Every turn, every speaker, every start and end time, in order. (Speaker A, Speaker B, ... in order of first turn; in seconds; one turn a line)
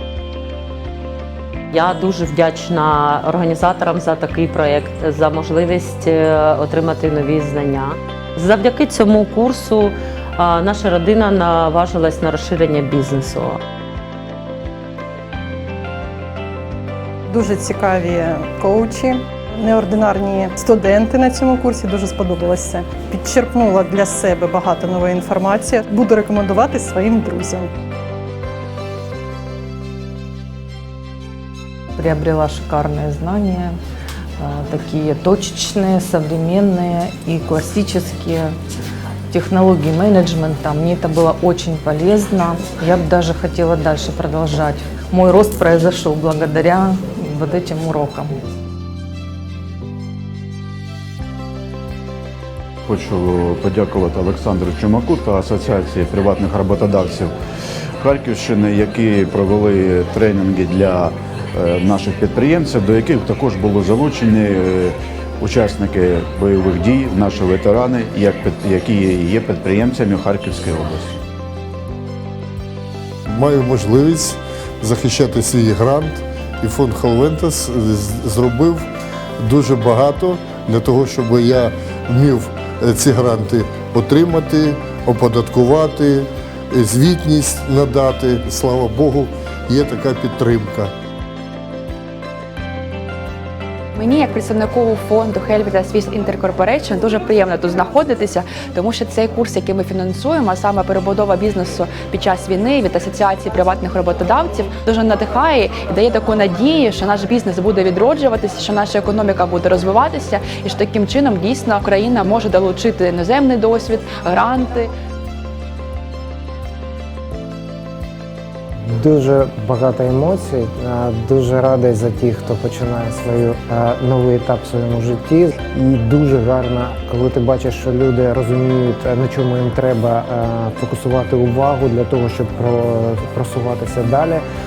Speaker A: 1.7-13.6
Speaker B: 17.3-27.7
Speaker C: 32.0-33.8
Speaker C: 34.4-38.5
Speaker C: 39.3-48.3
Speaker D: 52.9-57.3
Speaker D: 58.0-71.2
Speaker E: 73.3-78.9
Speaker E: 79.4-90.9
Speaker F: 94.0-114.9
Speaker G: 118.9-134.4